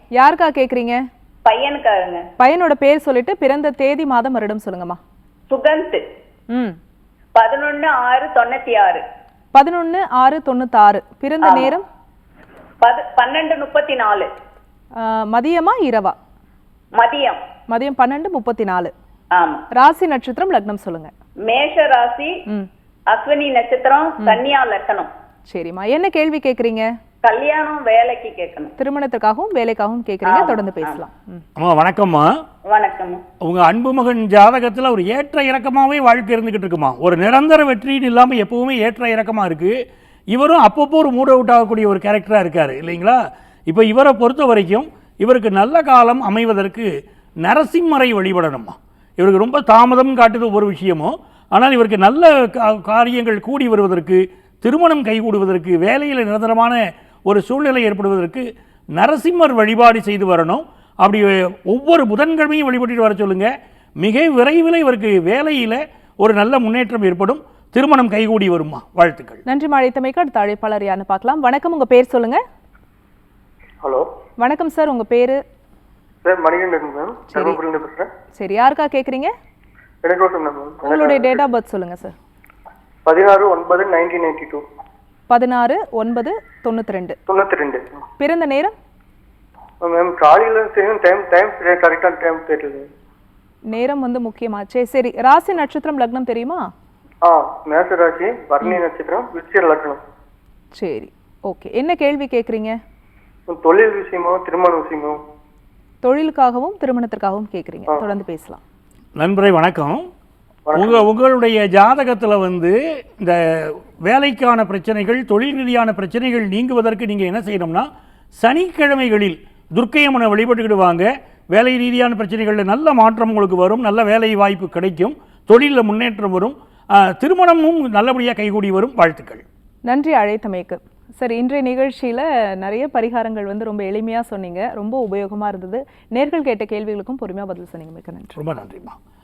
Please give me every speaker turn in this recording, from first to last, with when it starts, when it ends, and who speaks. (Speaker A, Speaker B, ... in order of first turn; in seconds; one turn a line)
Speaker A: 0.2-1.0
Speaker B: 1.4-2.2
Speaker A: 2.4-5.0
Speaker B: 5.5-6.0
Speaker B: 7.3-9.0
Speaker A: 9.5-11.8
Speaker B: 11.4-11.7
Speaker B: 12.8-14.3
Speaker A: 15.0-16.1
Speaker B: 16.9-17.4
Speaker A: 17.7-18.9
Speaker B: 19.3-19.6
Speaker A: 19.8-21.1
Speaker B: 21.4-22.3
Speaker B: 23.1-25.1
Speaker A: 25.5-26.9
Speaker B: 27.2-28.7
Speaker A: 28.8-31.4
Speaker B: 30.2-31.0
Speaker C: 31.6-32.3
Speaker B: 32.6-33.2
Speaker C: 33.4-39.7
Speaker C: 40.3-43.2
Speaker C: 43.7-46.9
Speaker C: 47.4-63.5
Speaker C: 64.0-69.4
Speaker A: 69.5-72.4
Speaker A: 74.4-75.4
Speaker D: 76.2-78.1
Speaker A: 77.3-77.6
Speaker A: 78.4-79.3
Speaker D: 80.0-81.4
Speaker A: 80.8-82.1
Speaker D: 83.0-84.6
Speaker A: 85.3-87.2
Speaker D: 87.3-88.0
Speaker A: 88.2-88.7
Speaker D: 89.8-92.9
Speaker A: 93.7-96.7
Speaker D: 97.2-100.0
Speaker A: 100.8-102.8
Speaker D: 103.5-105.2
Speaker A: 106.0-108.6
Speaker C: 109.2-110.0
Speaker D: 110.7-111.0
Speaker C: 110.7-117.9
Speaker C: 118.4-129.4
Speaker A: 129.9-138.4
Speaker C: 138.3-139.0